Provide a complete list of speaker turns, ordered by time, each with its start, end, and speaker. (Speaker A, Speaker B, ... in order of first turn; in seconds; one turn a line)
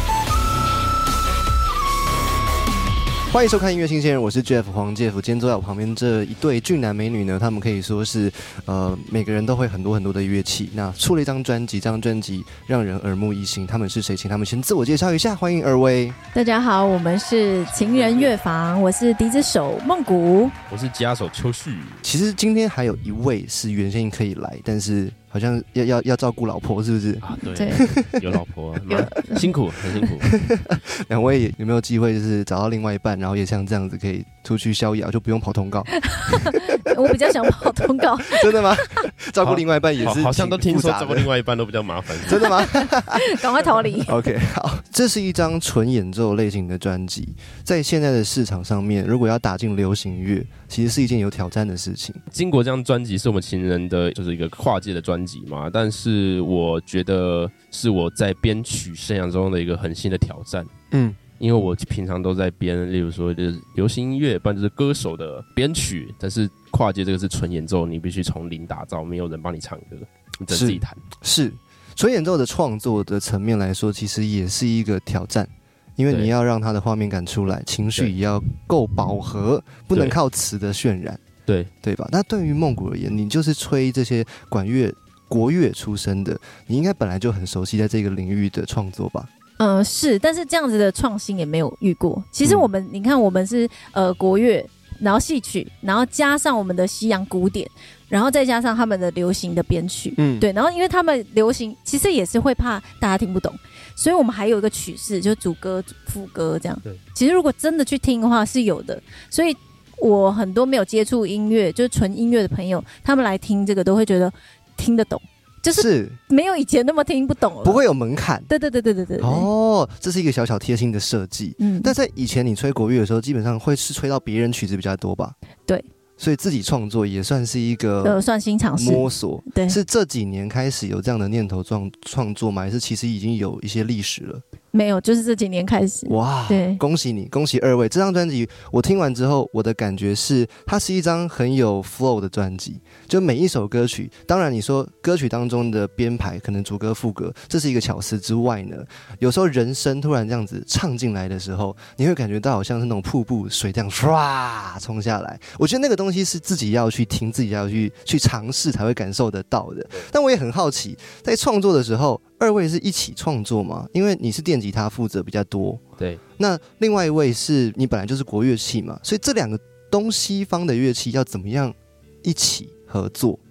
Speaker A: 3.3-16.2
Speaker B: 16.3-20.5
Speaker C: 17.7-18.4
Speaker C: 20.7-22.0
Speaker A: 22.0-28.3
Speaker C: 27.2-30.3
Speaker B: 27.4-27.8
Speaker B: 28.9-29.5
Speaker A: 30.2-36.3
Speaker B: 36.0-39.0
Speaker A: 37.0-37.5
Speaker A: 38.3-41.3
Speaker C: 39.4-42.5
Speaker A: 42.2-52.2
Speaker B: 42.4-44.1
Speaker C: 52.3-60.7
Speaker A: 60.9-61.2
Speaker C: 61.4-71.0
Speaker A: 70.5-81.2
Speaker A: 81.8-89.3
Speaker B: 89.6-117.8
Speaker A: 92.4-92.7
Speaker A: 100.2-100.5
Speaker A: 115.7-116.2
Speaker A: 117.6-118.5
Speaker B: 118.5-119.5
Speaker A: 119.2-125.3
Speaker B: 121.6-121.9
Speaker A: 126.2-128.2
Speaker B: 128.0-129.8
Speaker A: 128.8-134.4
Speaker B: 134.7-136.8
Speaker A: 136.1-165.8
Speaker A: 166.4-173.4